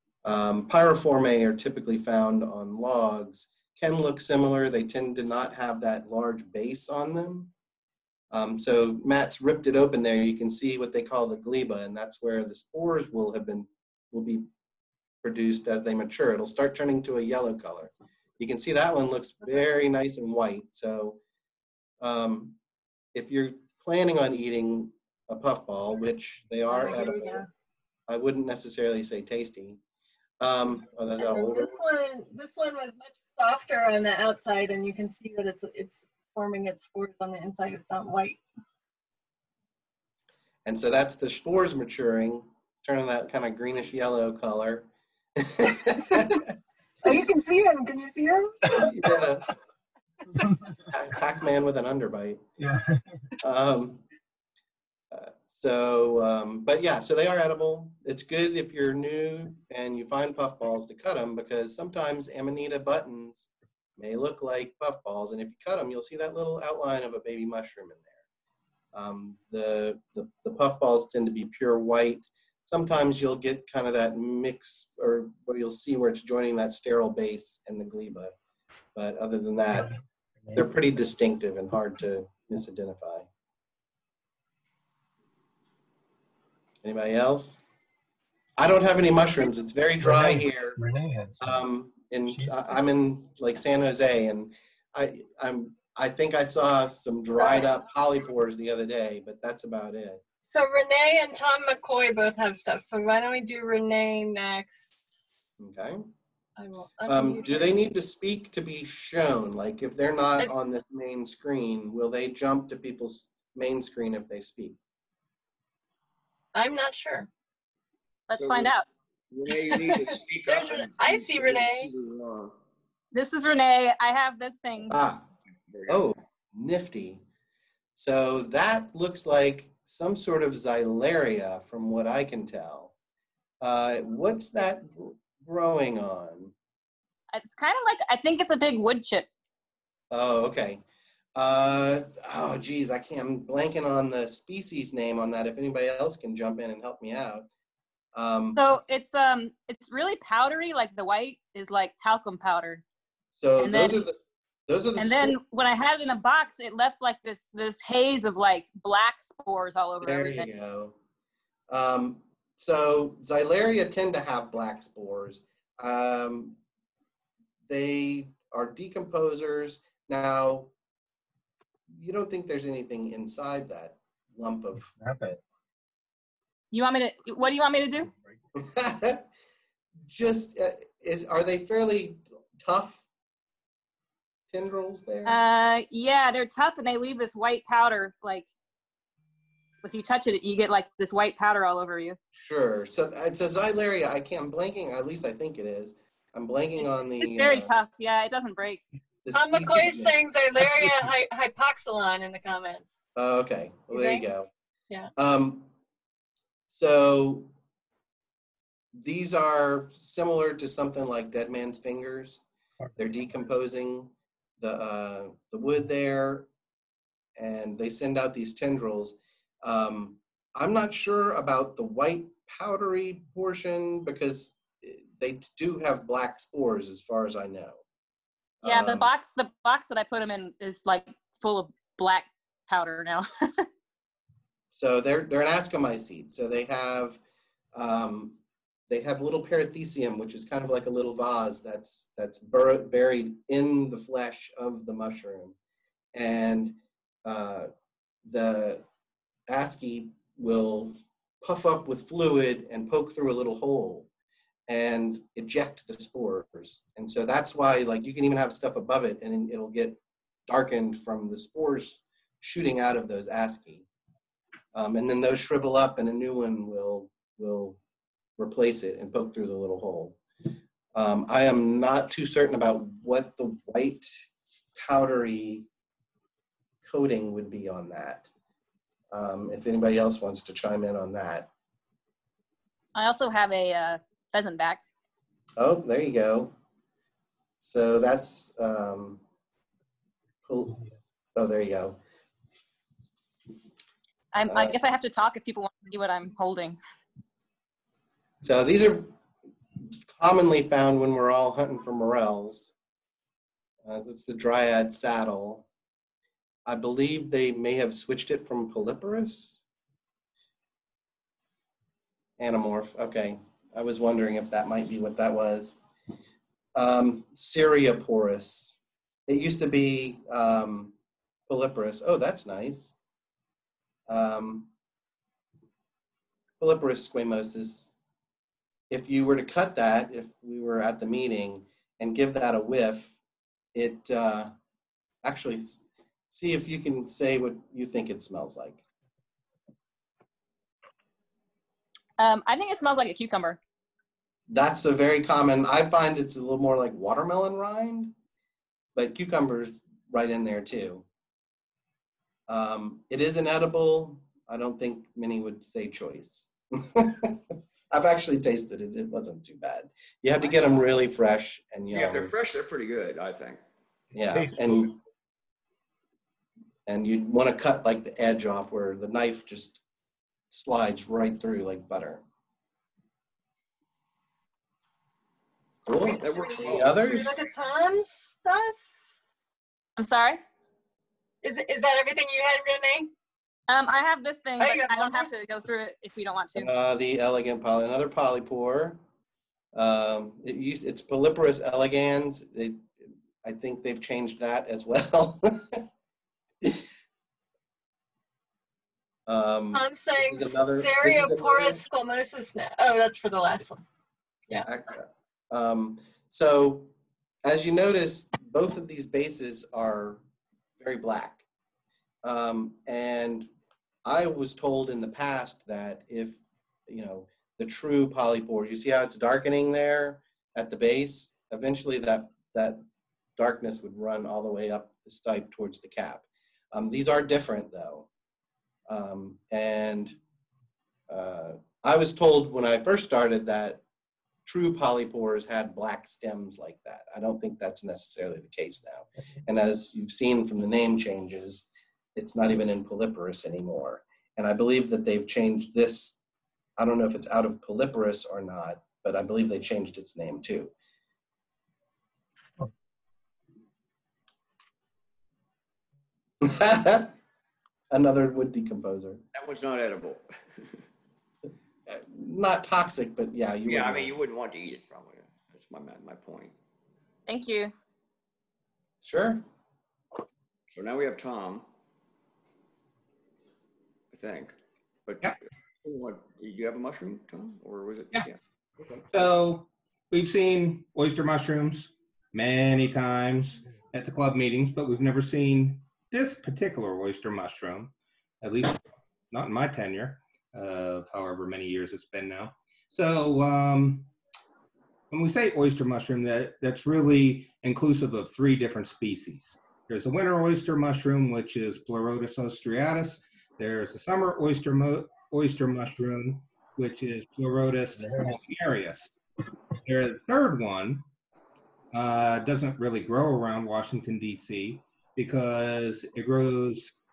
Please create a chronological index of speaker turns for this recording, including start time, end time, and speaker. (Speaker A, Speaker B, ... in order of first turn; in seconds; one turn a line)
Speaker A: 0.2-7.5
Speaker A: 8.3-14.5
Speaker A: 15.2-21.2
Speaker A: 22.0-22.6
Speaker A: 23.1-27.4
Speaker B: 26.7-27.5
Speaker A: 28.1-29.8
Speaker A: 30.4-31.8
Speaker B: 31.2-38.4
Speaker A: 40.6-46.4
Speaker B: 47.0-48.7
Speaker A: 48.8-49.4
Speaker A: 50.9-52.4
Speaker A: 53.4-54.0
Speaker A: 55.1-68.1
Speaker A: 68.9-78.3
Speaker A: 78.9-80.0
Speaker A: 80.5-83.3
Speaker A: 86.8-87.6
Speaker A: 88.6-90.8
Speaker C: 90.0-91.6
Speaker A: 91.4-100.2
Speaker C: 92.3-92.7
Speaker B: 100.5-105.1
Speaker A: 105.6-106.1
Speaker B: 106.6-107.8
Speaker A: 107.0-114.8
Speaker B: 116.5-117.3
Speaker D: 118.3-118.8
Speaker E: 118.4-118.7
Speaker E: 119.3-122.5
Speaker B: 119.6-121.9
Speaker D: 123.1-125.0
Speaker A: 124.9-125.2
Speaker E: 125.7-126.0
Speaker A: 125.9-127.2
Speaker A: 128.0-132.9
Speaker A: 133.6-136.5
Speaker D: 137.3-139.3
Speaker A: 140.1-140.8
Speaker A: 141.3-147.5
Speaker A: 148.1-148.7
Speaker D: 148.5-152.8
Speaker A: 153.4-155.3
Speaker D: 153.6-154.1
Speaker D: 155.0-160.5
Speaker A: 160.0-160.9
Speaker A: 161.7-166.6
Speaker A: 167.7-170.7
Speaker A: 171.9-174.9
Speaker C: 175.0-175.3
Speaker D: 176.7-178.1
Speaker A: 178.6-179.3
Speaker A: 180.1-183.0
Speaker A: 184.5-185.4
Speaker D: 185.2-188.5
Speaker D: 189.8-192.2
Speaker A: 192.3-197.7
Speaker D: 197.2-198.8
Speaker A: 199.2-200.2
Speaker B: 199.3-202.9
Speaker A: 203.2-204.5
Speaker B: 203.9-204.2
Speaker A: 205.2-205.7
Speaker A: 206.7-207.5
Speaker A: 208.9-212.4
Speaker A: 212.9-216.5
Speaker A: 217.4-227.8
Speaker A: 228.6-229.1
Speaker D: 228.6-233.7
Speaker A: 234.7-237.2
Speaker A: 237.7-245.5
Speaker A: 246.1-247.7
Speaker A: 248.2-248.8
Speaker A: 249.5-254.1
Speaker A: 254.7-263.9
Speaker A: 264.7-267.8
Speaker A: 268.4-270.2
Speaker A: 270.9-274.2
Speaker A: 274.8-275.7
Speaker A: 276.8-278.3
Speaker A: 279.1-281.5
Speaker D: 282.9-284.8
Speaker A: 285.6-286.5
Speaker A: 287.6-289.2
Speaker A: 290.4-290.8
Speaker A: 291.3-292.0
Speaker D: 294.3-296.8
Speaker A: 294.5-294.8
Speaker A: 298.4-299.1
Speaker A: 300.1-302.7
Speaker A: 303.8-305.6
Speaker A: 306.6-309.6
Speaker A: 312.4-315.8
Speaker A: 316.7-318.7
Speaker A: 319.3-320.9
Speaker A: 321.5-322.9
Speaker A: 324.1-324.7
Speaker A: 326.6-327.9
Speaker A: 328.9-333.2
Speaker A: 333.7-334.5
Speaker A: 335.2-338.8
Speaker D: 342.2-343.6
Speaker A: 344.5-348.1
Speaker A: 348.9-351.1
Speaker A: 352.5-357.4
Speaker A: 357.9-362.3
Speaker E: 361.9-363.6
Speaker A: 364.1-364.9
Speaker C: 364.3-364.8
Speaker A: 366.9-369.8
Speaker A: 370.5-372.2
Speaker A: 375.9-377.4
Speaker B: 375.9-378.9
Speaker E: 376.2-377.1
Speaker D: 380.0-380.4
Speaker B: 381.4-383.1
Speaker D: 383.7-386.7
Speaker B: 384.6-385.3
Speaker A: 386.5-389.0
Speaker A: 389.7-395.9
Speaker A: 399.3-401.8
Speaker B: 399.7-403.8
Speaker A: 404.6-410.2
Speaker A: 410.8-411.4
Speaker A: 412.2-413.5
Speaker A: 414.0-422.8
Speaker A: 423.4-428.1
Speaker A: 428.9-430.2
Speaker A: 431.1-433.8
Speaker A: 434.4-446.2
Speaker A: 446.8-450.7
Speaker A: 456.4-457.1
Speaker A: 457.9-459.2
Speaker E: 459.3-460.8
Speaker A: 461.9-464.1
Speaker E: 463.6-466.5
Speaker D: 467.2-467.7
Speaker A: 469.0-469.4
Speaker E: 470.7-471.6
Speaker E: 474.1-474.6
Speaker E: 475.1-478.4
Speaker F: 479.1-494.1
Speaker F: 495.1-509.1
Speaker F: 509.8-511.0
Speaker F: 511.9-516.9